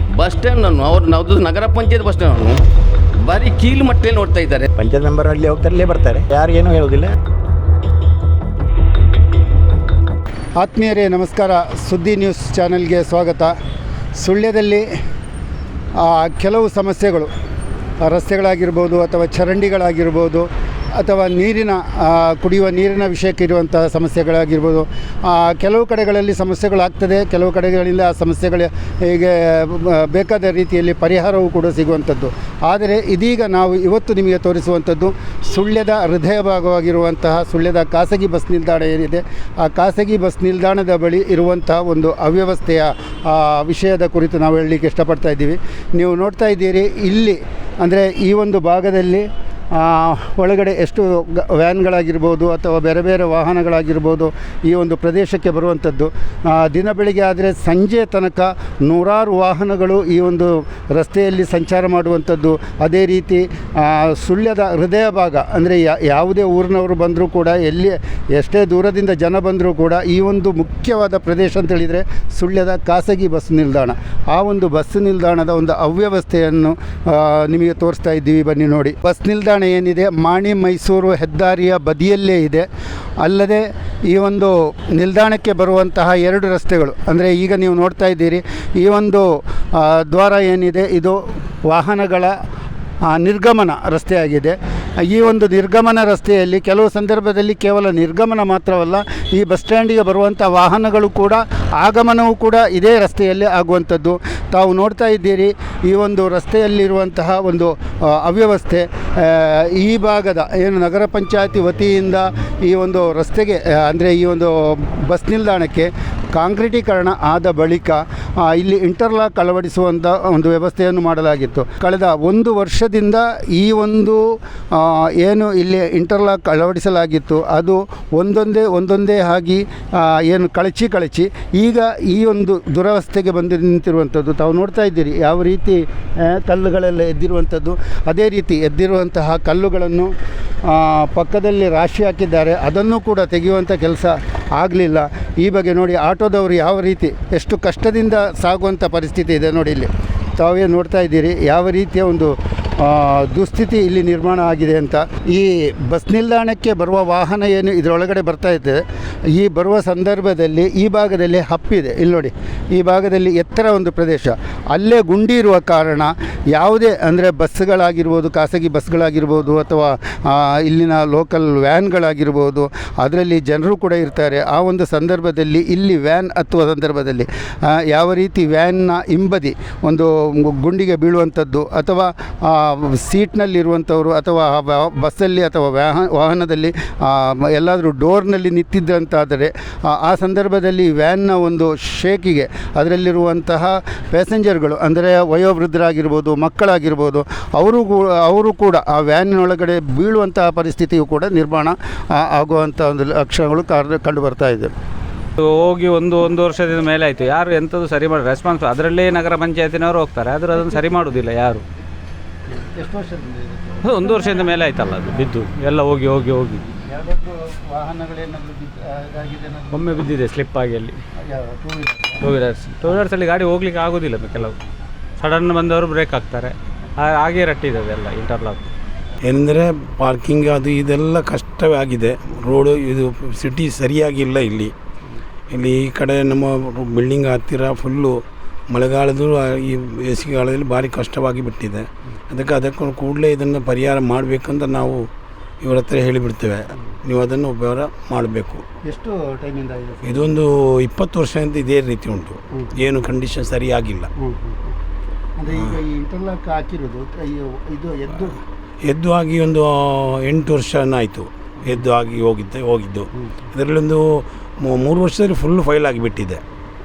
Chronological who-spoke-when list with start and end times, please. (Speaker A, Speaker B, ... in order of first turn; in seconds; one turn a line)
Speaker A: 0.1-2.6
Speaker A: 3.2-4.7
Speaker B: 4.7-7.1
Speaker C: 10.6-13.5
Speaker C: 14.1-14.9
Speaker C: 16.0-17.3
Speaker C: 18.0-82.7
Speaker C: 83.2-92.3
Speaker C: 93.0-140.1
Speaker C: 140.6-204.7
Speaker D: 205.4-211.6
Speaker C: 212.5-214.5
Speaker D: 213.8-216.6
Speaker C: 216.8-219.9
Speaker D: 219.7-221.0
Speaker C: 221.2-222.2
Speaker D: 222.2-224.6
Speaker D: 225.2-228.7
Speaker E: 229.2-234.7
Speaker E: 235.5-245.1
Speaker E: 245.6-248.6
Speaker C: 248.8-250.2
Speaker E: 250.0-254.1
Speaker C: 254.2-254.7
Speaker C: 255.4-258.3
Speaker E: 258.8-266.4